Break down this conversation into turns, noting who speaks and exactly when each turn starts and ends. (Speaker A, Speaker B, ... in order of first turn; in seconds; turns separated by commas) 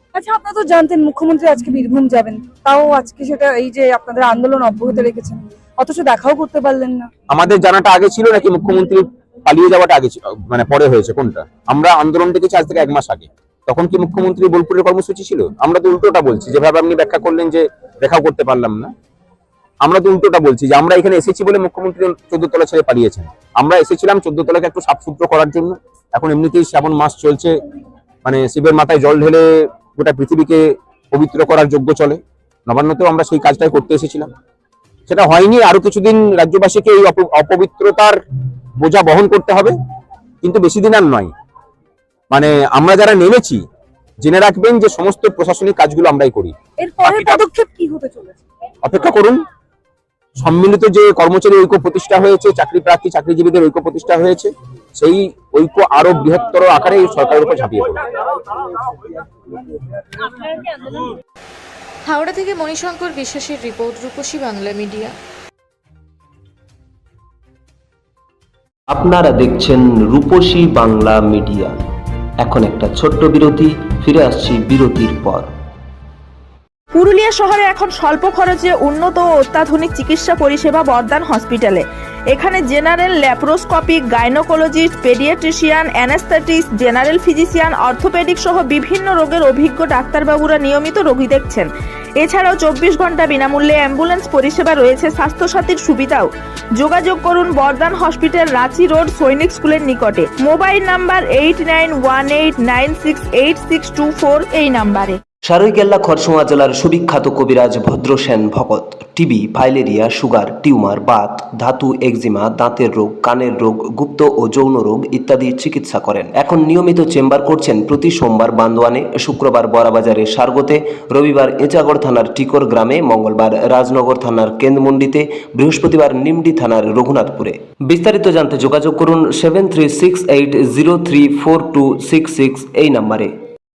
Speaker A: 0.1-7.1, Speaker B: 7.3-18.9, Speaker B: 19.8-27.5, Speaker B: 28.2-34.3, Speaker B: 35.1-38.2, Speaker B: 38.8-39.7, Speaker B: 40.4-41.3, Speaker B: 42.3-43.6, Speaker B: 44.2-47.4, Speaker A: 46.8-48.4, Speaker B: 48.8-49.4, Speaker B: 50.4-58.0, Speaker C: 62.1-65.1, Speaker D: 68.9-71.7, Speaker D: 72.4-75.5, Speaker E: 76.9-105.2, Speaker D: 105.4-133.3